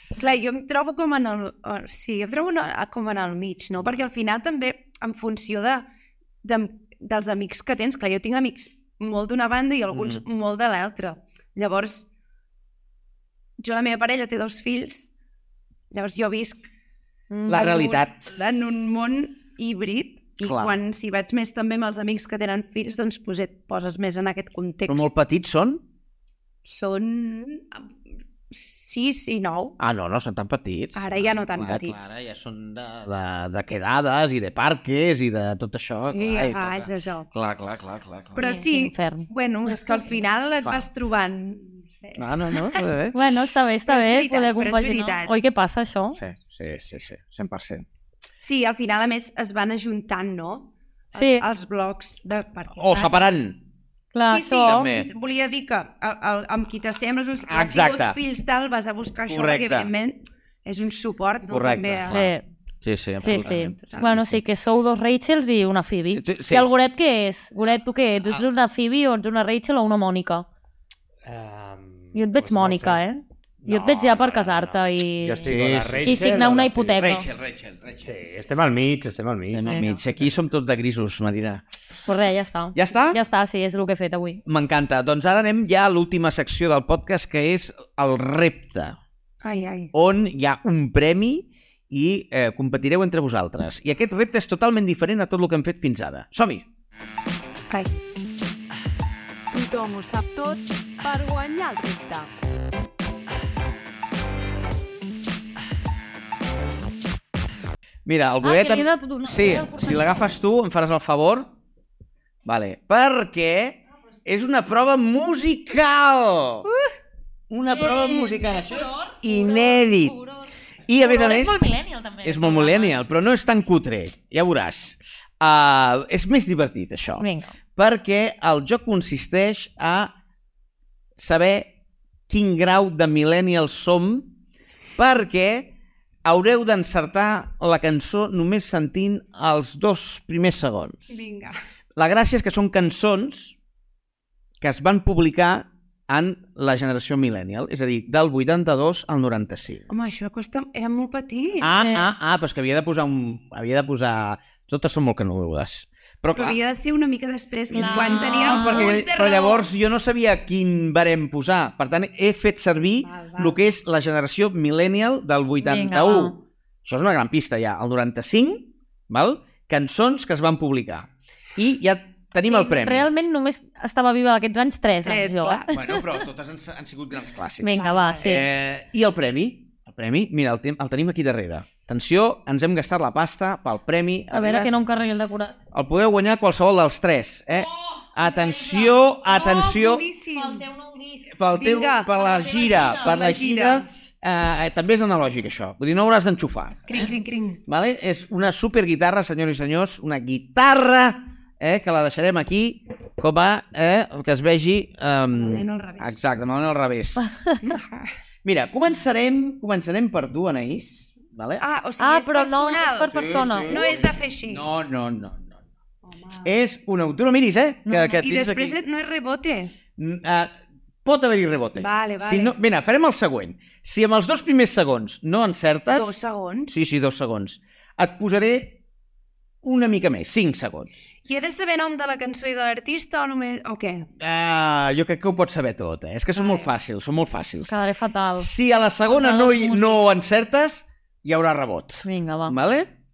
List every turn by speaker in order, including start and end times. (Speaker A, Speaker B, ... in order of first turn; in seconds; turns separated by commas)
Speaker A: 0.2-5.8, Speaker A: 6.4-12.1, Speaker B: 9.9-10.2, Speaker A: 13.6-15.1, Speaker A: 15.9-16.7, Speaker C: 17.3-17.8, Speaker B: 17.5-18.4, Speaker A: 17.5-25.1, Speaker B: 20.4-20.8, Speaker B: 24.9-25.8, Speaker A: 26.6-27.9, Speaker A: 28.5-29.8, Speaker B: 29.8-38.4, Speaker A: 30.9-32.1, Speaker A: 36.1-37.3, Speaker A: 38.4-42.9, Speaker C: 38.4-39.3, Speaker B: 42.2-43.2, Speaker C: 43.1-46.2, Speaker A: 43.9-45.4, Speaker B: 46.2-47.9, Speaker A: 48.4-53.3, Speaker C: 51.2-51.5, Speaker B: 52.8-53.6, Speaker C: 54.1-54.9, Speaker A: 54.3-62.3, Speaker B: 54.6-55.1, Speaker B: 57.5-58.2, Speaker B: 59.3-59.9, Speaker B: 61.5-64.4, Speaker C: 62.1-62.4, Speaker C: 63.2-70.5, Speaker A: 63.4-64.1, Speaker B: 66.1-66.7, Speaker D: 71.2-73.0, Speaker C: 72.1-75.5, Speaker D: 73.6-77.0, Speaker B: 75.5-76.3, Speaker C: 76.0-77.3, Speaker B: 76.9-78.1, Speaker D: 78.0-80.1, Speaker B: 79.5-81.7, Speaker C: 82.1-84.4, Speaker B: 82.8-83.2, Speaker B: 84.5-89.0, Speaker A: 89.4-89.9, Speaker B: 89.9-96.7, Speaker E: 99.5-102.3, Speaker B: 108.0-111.5, Speaker C: 108.4-110.2, Speaker B: 112.5-116.7, Speaker B: 117.5-120.2, Speaker C: 117.7-123.1, Speaker B: 120.9-121.6, Speaker B: 122.2-130.1, Speaker C: 127.2-127.5, Speaker B: 131.2-131.7, Speaker B: 132.3-134.3, Speaker B: 135.0-135.7, Speaker B: 136.2-141.2, Speaker A: 141.1-141.6, Speaker B: 142.0-143.6, Speaker B: 144.6-149.8, Speaker A: 149.9-151.7, Speaker B: 151.6-156.6, Speaker C: 151.7-152.1, Speaker A: 156.3-159.7, Speaker B: 157.7-173.1, Speaker C: 157.7-158.9, Speaker A: 163.0-163.6, Speaker C: 165.6-166.4, Speaker C: 172.4-176.0, Speaker A: 175.1-175.8, Speaker B: 175.7-184.8, Speaker C: 177.6-178.4, Speaker A: 177.8-178.4, Speaker C: 184.3-185.6, Speaker B: 185.7-190.1, Speaker C: 187.5-189.0, Speaker A: 189.3-190.7, Speaker C: 190.3-191.3, Speaker B: 191.3-197.1, Speaker A: 191.6-192.1, Speaker C: 192.1-193.2, Speaker A: 193.0-193.9, Speaker A: 196.9-197.6, Speaker B: 197.7-207.4, Speaker A: 205.3-206.2, Speaker C: 207.2-207.6, Speaker A: 207.6-208.1, Speaker B: 208.4-211.7, Speaker A: 211.6-214.7, Speaker C: 212.0-213.8, Speaker B: 213.1-215.6, Speaker A: 216.1-216.5, Speaker B: 216.4-218.8, Speaker A: 218.1-219.8, Speaker B: 220.0-220.5, Speaker B: 221.1-226.2, Speaker A: 221.8-222.6, Speaker A: 225.9-226.8, Speaker B: 226.7-228.8, Speaker B: 229.6-231.0, Speaker A: 231.3-234.1, Speaker B: 234.2-237.7, Speaker A: 236.3-236.7, Speaker C: 237.7-238.5, Speaker B: 238.4-242.9, Speaker C: 239.0-240.0, Speaker C: 242.1-242.6